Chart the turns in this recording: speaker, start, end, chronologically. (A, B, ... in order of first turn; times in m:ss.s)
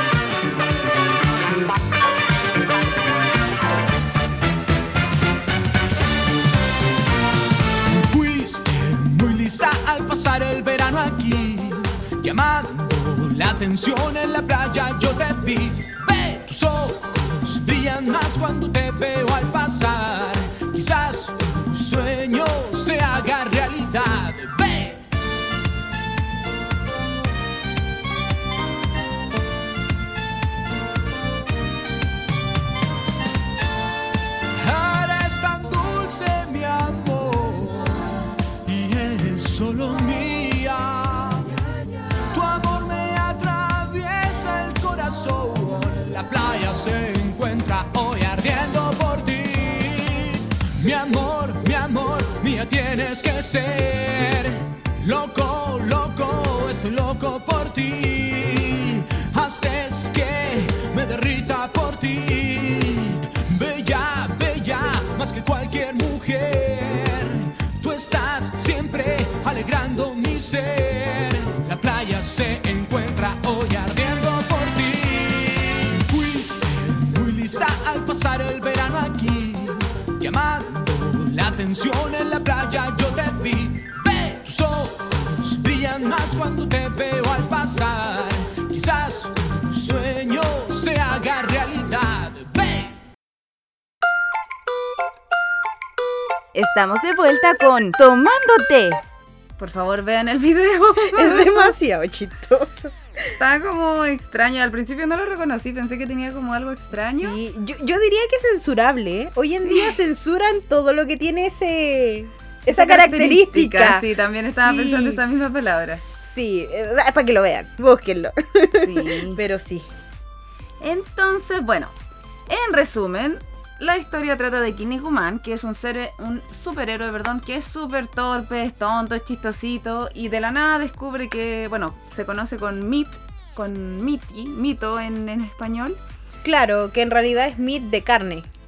0:07.9-0:25.0 A
0:34.6-0:41.6 A
0:42.3-1:33.0 A
1:36.5-1:39.0 B
1:39.6-1:41.7 B
1:41.1-1:43.3 C
1:43.4-1:47.4 B
1:46.9-1:54.1 C
1:49.6-1:50.0 B
1:52.7-1:56.0 B
1:54.6-1:55.2 C
1:56.2-1:59.9 C
1:58.8-1:59.4 B
2:00.8-2:01.9 B
2:02.5-2:16.0 B
2:16.4-2:18.4 C